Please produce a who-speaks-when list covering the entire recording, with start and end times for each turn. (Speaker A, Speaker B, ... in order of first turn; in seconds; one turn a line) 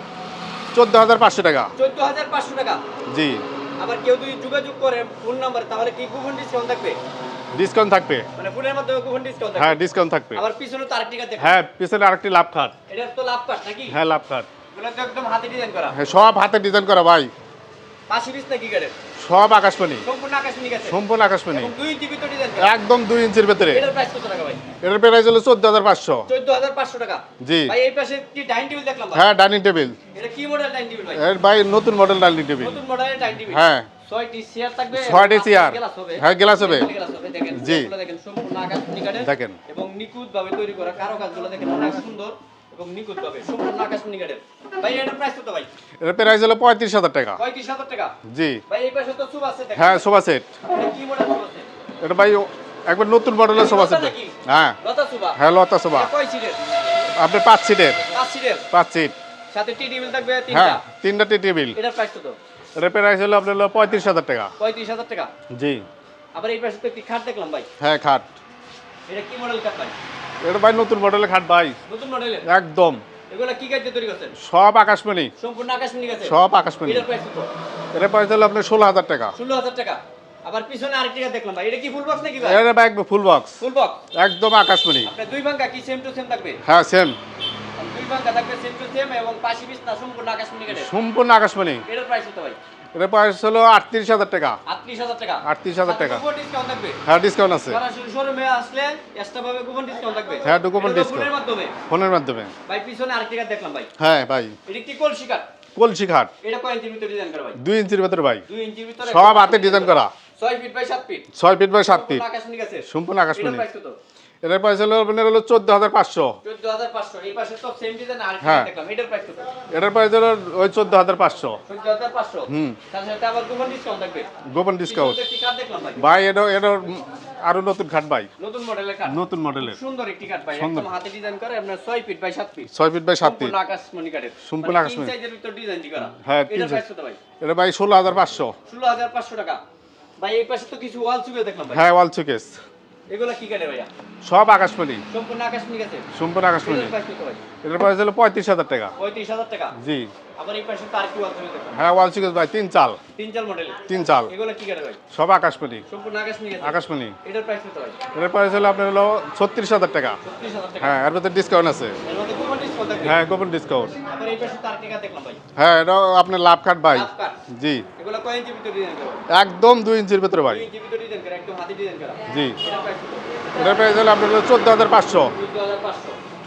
Speaker A: 0.7-1.7
Speaker B: 1.8-2.8
Speaker A: 3.1-3.4
Speaker B: 3.8-7.0
Speaker A: 7.5-8.3
Speaker B: 8.3-9.8
Speaker A: 9.6-10.4
Speaker B: 10.3-11.6
Speaker A: 11.4-12.7
Speaker B: 12.9-14.0
Speaker A: 13.9-14.5
Speaker B: 14.7-16.0
Speaker A: 15.9-17.3
Speaker B: 18.1-18.9
Speaker A: 19.2-20.1
Speaker B: 20.0-21.0
Speaker A: 20.9-21.7
Speaker B: 21.5-22.7
Speaker A: 22.6-23.8
Speaker B: 23.7-24.6
Speaker A: 24.8-26.3
Speaker B: 26.3-29.2
Speaker A: 27.4-27.7
Speaker A: 29.1-30.0
Speaker B: 30.1-31.2
Speaker A: 31.1-32.8
Speaker B: 32.6-45.7
Speaker A: 33.5-33.9
Speaker A: 34.9-36.9
Speaker A: 37.5-37.9
Speaker A: 39.2-39.6
Speaker A: 46.0-47.4
Speaker B: 47.4-48.1
Speaker A: 48.2-48.6
Speaker B: 48.7-50.0
Speaker A: 49.8-50.5
Speaker B: 50.7-51.7
Speaker A: 52.0-54.8
Speaker B: 53.5-55.4
Speaker A: 55.4-56.1
Speaker B: 55.9-56.7
Speaker A: 57.1-58.1
Speaker B: 58.1-58.7
Speaker A: 58.7-59.1
Speaker B: 59.5-60.8
Speaker A: 60.5-61.8
Speaker B: 61.7-62.4
Speaker A: 62.8-64.5
Speaker B: 64.6-65.3
Speaker A: 65.5-65.8
Speaker B: 66.3-67.7
Speaker A: 67.8-68.3
Speaker B: 69.1-69.9
Speaker A: 70.4-71.8
Speaker B: 71.9-72.5
Speaker A: 72.4-73.0
Speaker B: 73.3-74.3
Speaker A: 74.4-75.3
Speaker B: 75.4-77.5
Speaker A: 76.2-77.1
Speaker A: 77.9-79.3
Speaker B: 79.3-82.6
Speaker A: 82.4-83.6
Speaker B: 83.6-84.0
Speaker A: 84.1-85.1
Speaker B: 85.0-86.6
Speaker A: 86.6-87.2
Speaker B: 87.8-90.9
Speaker A: 90.7-91.8
Speaker B: 91.9-92.6
Speaker A: 92.9-94.6
Speaker B: 94.7-97.0
Speaker A: 95.4-96.2
Speaker A: 97.0-97.8
Speaker B: 97.7-101.7
Speaker A: 100.4-101.3
Speaker A: 101.9-102.5
Speaker B: 102.7-103.9
Speaker A: 104.0-104.5
Speaker B: 104.7-105.5
Speaker A: 105.8-106.3
Speaker B: 106.4-107.6
Speaker A: 107.6-108.4
Speaker B: 108.5-111.2
Speaker A: 109.0-110.1
Speaker A: 111.3-112.2
Speaker B: 111.8-114.0
Speaker A: 112.9-113.6
Speaker A: 114.4-116.3
Speaker B: 116.4-119.5
Speaker A: 118.4-118.7
Speaker A: 119.7-121.6
Speaker B: 121.7-124.3
Speaker A: 122.5-122.8
Speaker A: 124.4-125.2
Speaker B: 124.9-126.0
Speaker A: 126.0-128.3
Speaker B: 128.4-132.7
Speaker A: 129.1-129.8
Speaker A: 130.5-130.9
Speaker A: 132.7-133.6
Speaker B: 133.2-137.2
Speaker A: 134.4-135.1
Speaker A: 136.2-136.8
Speaker A: 137.4-138.5
Speaker B: 138.7-139.6
Speaker B: 140.2-141.8
Speaker A: 141.7-142.6
Speaker B: 143.1-143.9
Speaker A: 144.2-145.0
Speaker B: 145.1-146.1
Speaker A: 146.1-146.9
Speaker B: 146.6-147.4
Speaker A: 147.6-148.9
Speaker B: 149.0-149.7
Speaker A: 149.7-150.1
Speaker B: 150.4-151.8
Speaker A: 151.7-153.0
Speaker B: 153.2-155.0
Speaker A: 153.8-154.3
Speaker A: 155.1-155.8
Speaker B: 155.9-158.0
Speaker A: 156.6-157.2
Speaker A: 158.1-160.2
Speaker B: 160.2-161.0
Speaker A: 160.8-162.0
Speaker B: 162.0-163.2
Speaker A: 163.0-163.9
Speaker B: 164.0-165.4
Speaker A: 165.6-167.9
Speaker B: 166.9-167.4
Speaker B: 168.0-169.2
Speaker A: 169.3-170.7
Speaker B: 170.5-173.7
Speaker A: 172.3-172.6
Speaker A: 173.5-175.3
Speaker B: 175.3-176.2